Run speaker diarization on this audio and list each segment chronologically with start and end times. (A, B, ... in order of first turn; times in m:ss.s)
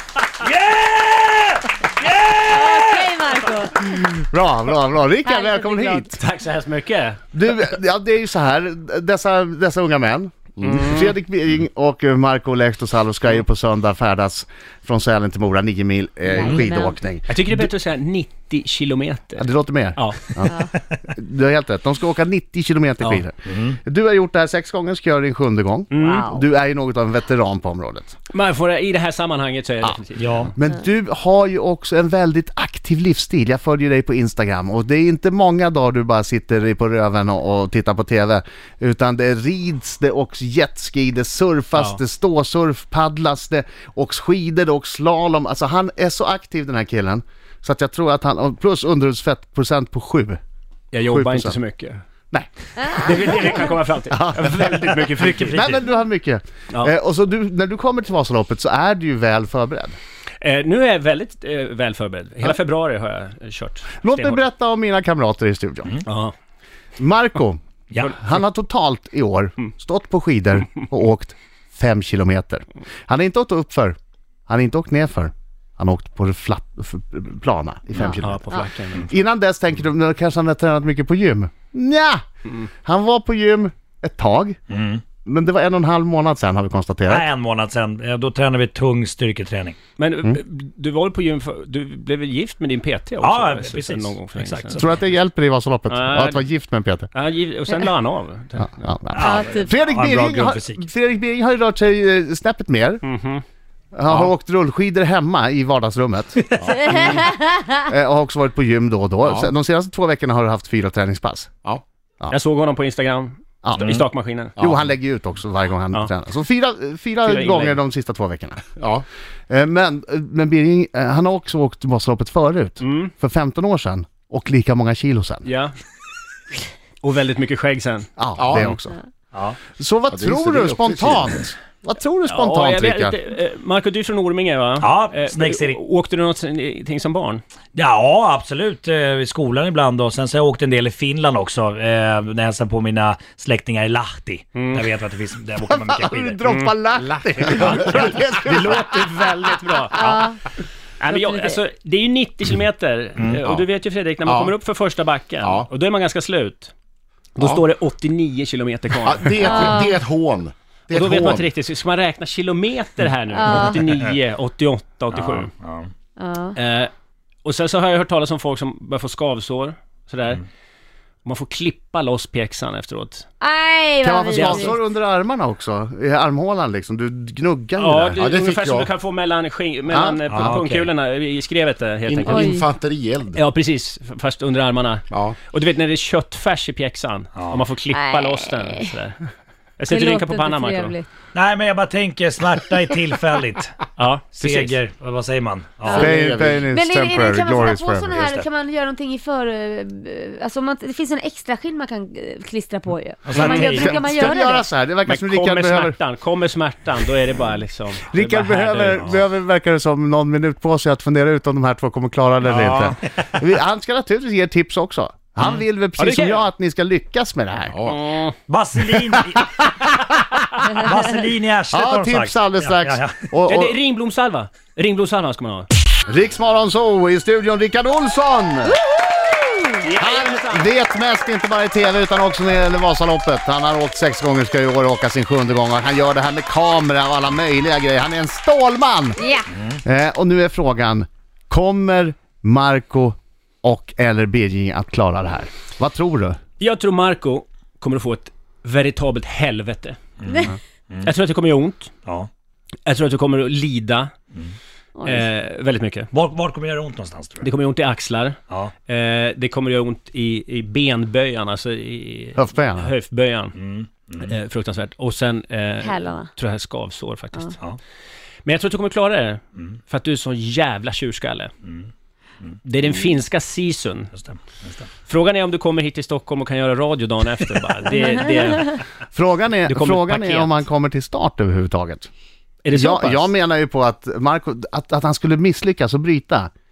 0:00.4-0:03.1 A
0:02.4-0:04.0 B
0:03.9-0:06.1 C
0:05.2-0:06.1 B
0:06.2-0:07.2 D
0:07.3-0:17.7 C
0:10.6-0:10.9 E
0:10.7-0:11.0 D
0:16.3-0:16.9 B
0:17.3-0:20.2 D
0:19.4-0:28.1 C
0:23.4-0:23.8 A
0:25.9-0:26.2 D
0:26.0-0:26.4 B
0:28.3-0:30.5 D
0:30.2-0:30.5 A
0:30.5-0:50.4 C
0:50.9-0:52.0 D
0:51.0-0:51.6 C
0:52.3-0:53.6 C
0:52.8-0:53.1 B
0:53.0-0:55.6 D
0:54.1-0:54.7 C
0:55.0-0:55.8 A
0:55.5-1:00.0 C
1:00.4-1:04.4 D
1:04.0-1:06.0 C
1:06.0-1:06.3 D
1:07.0-1:14.0 C
1:14.5-1:22.2 C
1:17.9-1:19.1 D
1:22.8-1:24.6 C
1:24.7-1:25.0 A
1:25.2-1:27.3 C
1:27.1-1:29.8 A
1:30.0-1:35.0 D
1:33.2-1:35.0 A
1:34.8-1:37.1 C
1:35.9-1:36.4 D
1:37.1-1:38.9 D
1:38.6-1:43.0 C
1:39.1-1:40.9 A
1:39.2-1:39.8 B
1:43.0-1:43.4 D
1:43.9-1:46.5 C
1:46.6-1:47.9 B
1:47.9-1:51.5 C
1:49.2-1:49.5 E
1:52.3-1:54.5 D
1:53.6-1:58.6 C
1:54.6-1:54.8 E
1:57.2-1:57.8 D
1:58.8-1:59.0 E
1:59.5-2:05.4 C
2:02.8-2:03.1 D
2:05.4-2:05.7 D
2:07.0-2:08.8 D
2:08.2-2:08.9 C
2:08.4-2:08.8 E
2:09.3-2:09.6 A
2:09.8-2:13.2 C
2:10.1-2:11.4 E
2:12.2-2:17.4 D
2:14.8-2:15.8 A
2:17.7-2:26.4 A
2:24.5-2:24.8 D
2:25.6-2:29.2 C
2:27.4-2:30.0 D
2:29.9-2:30.4 A
2:30.0-2:30.4 B
2:31.0-2:36.7 D
2:31.2-2:31.5 B
2:33.2-2:33.6 A
2:34.2-2:34.5 E
2:35.4-2:35.7 E
2:37.4-2:39.8 D
2:37.4-2:37.6 E
2:39.0-2:41.4 E
2:39.4-2:40.0 B
2:40.9-2:45.5 D
2:43.3-2:43.8 B
2:45.1-2:45.9 A
2:46.2-2:46.6 B
2:46.6-2:46.9 D
2:47.4-2:50.4 D
2:51.2-2:53.2 D
2:53.4-2:54.7 B
2:54.0-2:58.2 C
2:54.3-2:54.8 D
2:57.8-3:02.5 D
2:58.2-2:58.9 E
2:59.9-3:00.6 C
3:00.3-3:00.9 A
3:02.1-3:03.4 E
3:02.3-3:02.6 B
3:03.3-3:09.2 D
3:05.1-3:05.4 E
3:07.3-3:07.6 A
3:07.9-3:08.9 B
3:09.8-3:10.9 D
3:09.9-3:11.1 B
3:11.3-3:16.1 A
3:14.0-3:14.8 D
3:15.9-3:16.6 E
3:15.9-3:18.3 C
3:16.7-3:24.6 B
3:17.5-3:18.5 A
3:23.2-3:24.0 A
3:23.4-3:23.7 D
3:23.4-3:26.0 C
3:25.0-3:29.2 D
3:28.1-3:37.8 C
3:32.5-3:32.9 D
3:32.7-3:32.9 A
3:36.0-3:36.5 D
3:37.7-3:38.0 E
3:37.9-3:38.3 D
3:38.5-3:40.1 A
3:40.7-3:43.1 A
3:41.7-3:43.8 C
3:43.4-3:45.7 D
3:46.1-3:48.8 C
3:49.0-3:49.8 B
3:49.8-3:50.7 D
3:50.0-3:59.2 C
3:59.2-3:59.5 B
3:59.8-4:06.4 C
4:06.6-4:10.0 D
4:10.2-4:11.1 A
4:11.0-4:11.9 D
4:12.8-4:14.1 D
4:15.0-4:15.2 B
4:15.0-4:16.1 D
4:16.1-4:17.5 A
4:17.4-4:23.6 D
4:22.4-4:22.9 C
4:23.5-4:24.3 A
4:24.2-4:27.5 D
4:25.8-4:26.3 B
4:28.4-4:31.5 D
4:31.6-4:31.9 A
4:32.6-4:34.1 D
4:34.1-4:34.9 A
4:35.1-4:38.8 D
4:39.1-4:42.1 C
4:39.6-4:40.6 D
4:42.6-4:43.3 D
4:42.7-4:46.5 C